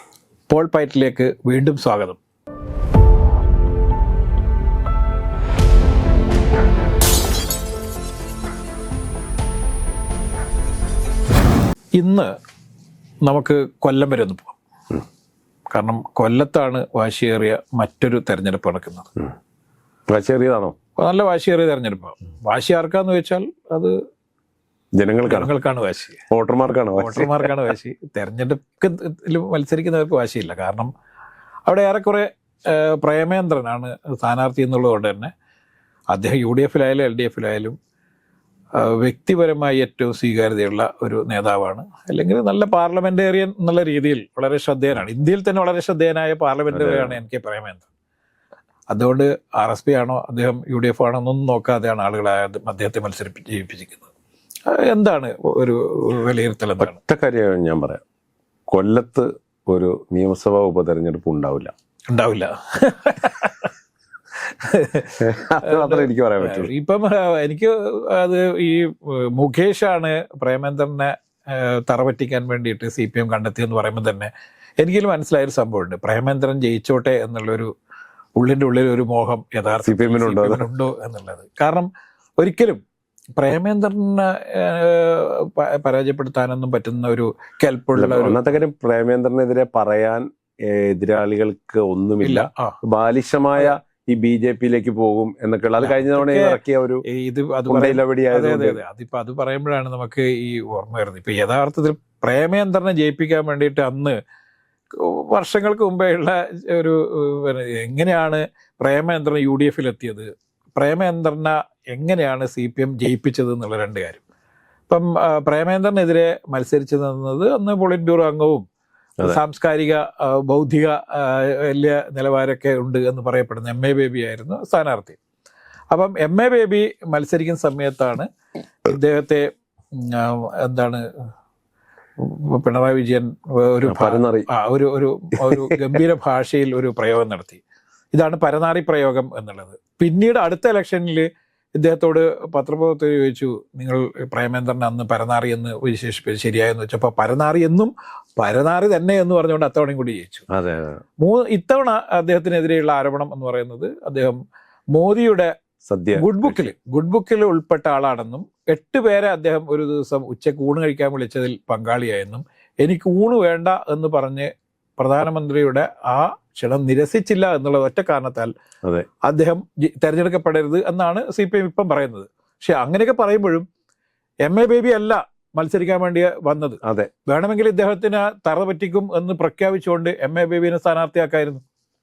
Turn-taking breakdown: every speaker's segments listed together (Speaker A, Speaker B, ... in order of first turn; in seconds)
Speaker A: 0.5-2.2, 12.0-12.3, 13.2-14.6, 15.7-19.1, 21.0-24.0, 25.3-26.2, 27.0-30.9, 31.7-35.3, 36.1-37.8, 38.8-47.9, 48.9-54.1, 54.7-57.0, 62.1-63.7, 64.4-77.7, 78.4-82.8, 83.4-88.5, 92.2-92.8, 95.8-104.2, 104.9-114.2, 114.9-118.6, 119.2-125.2, 125.9-128.3, 128.8-131.1, 132.2-137.6, 138.1-150.4, 151.2-154.4, 154.9-155.5, 156.2-168.5, 169.2-173.7, 174.4-181.6
Speaker B: 20.1-20.8, 25.0-25.5, 26.3-27.5, 46.7-47.2, 56.8-58.0, 58.7-61.7, 65.2-66.7, 79.8-80.6, 88.0-97.0, 97.7-98.8, 133.9-134.5, 150.5-151.0, 155.9-156.7, 176.8-177.1